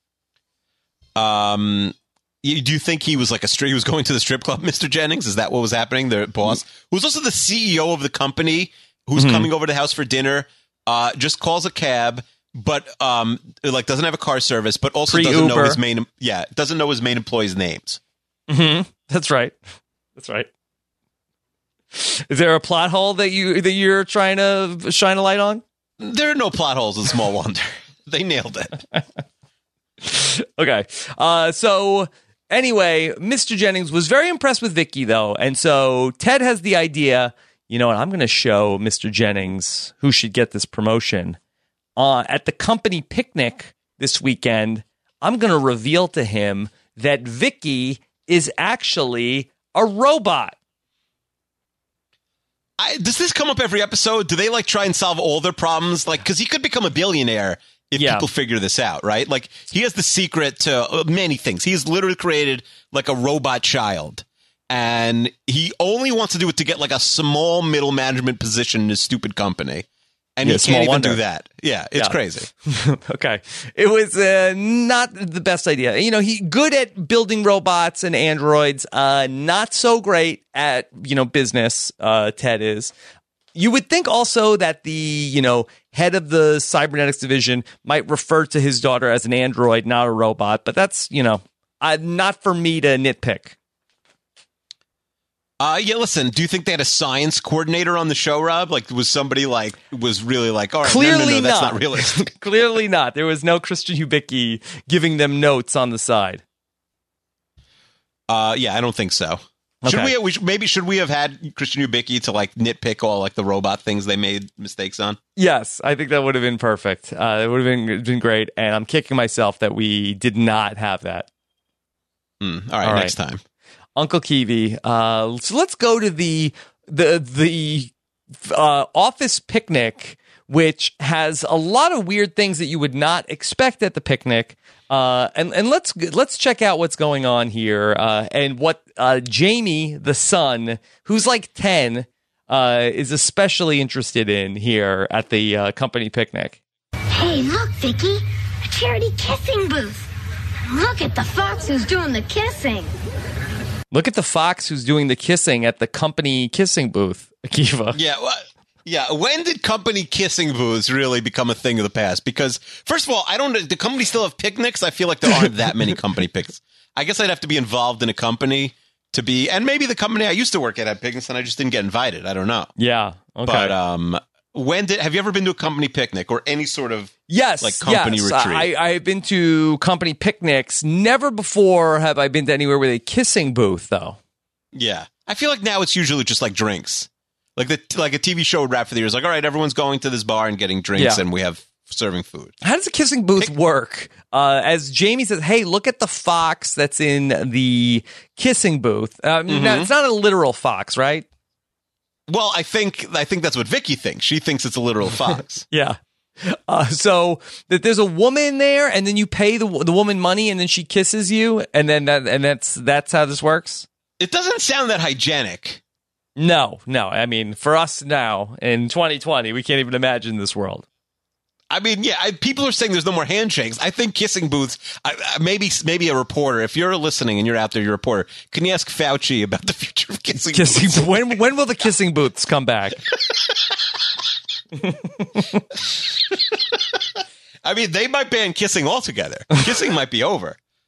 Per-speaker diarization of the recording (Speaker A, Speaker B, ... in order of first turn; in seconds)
Speaker A: 1.2-18.0, 26.0-28.8, 52.8-69.9, 70.4-72.5, 95.6-102.2, 108.3-115.2, 122.4-123.4, 157.9-172.7, 173.4-178.7, 184.7-192.6, 199.5-199.9, 202.3-205.7, 214.2-215.8, 221.7-231.3, 235.7-240.6
Speaker B: 9.2-9.5, 15.1-15.8, 18.5-19.6, 20.2-20.5, 21.9-25.6, 30.0-41.4, 42.0-50.6, 58.0-58.3, 70.4-71.2, 72.0-82.9, 83.5-93.5, 100.8-106.4, 109.8-110.1, 115.4-121.3, 122.8-123.2, 124.0-146.6, 153.9-158.0, 172.8-173.8, 177.3-184.2, 191.0-191.2, 192.6-201.3, 205.7-213.9, 216.4-220.8, 230.4-233.0, 234.8-235.6
Speaker C: 147.2-150.1, 150.7-152.9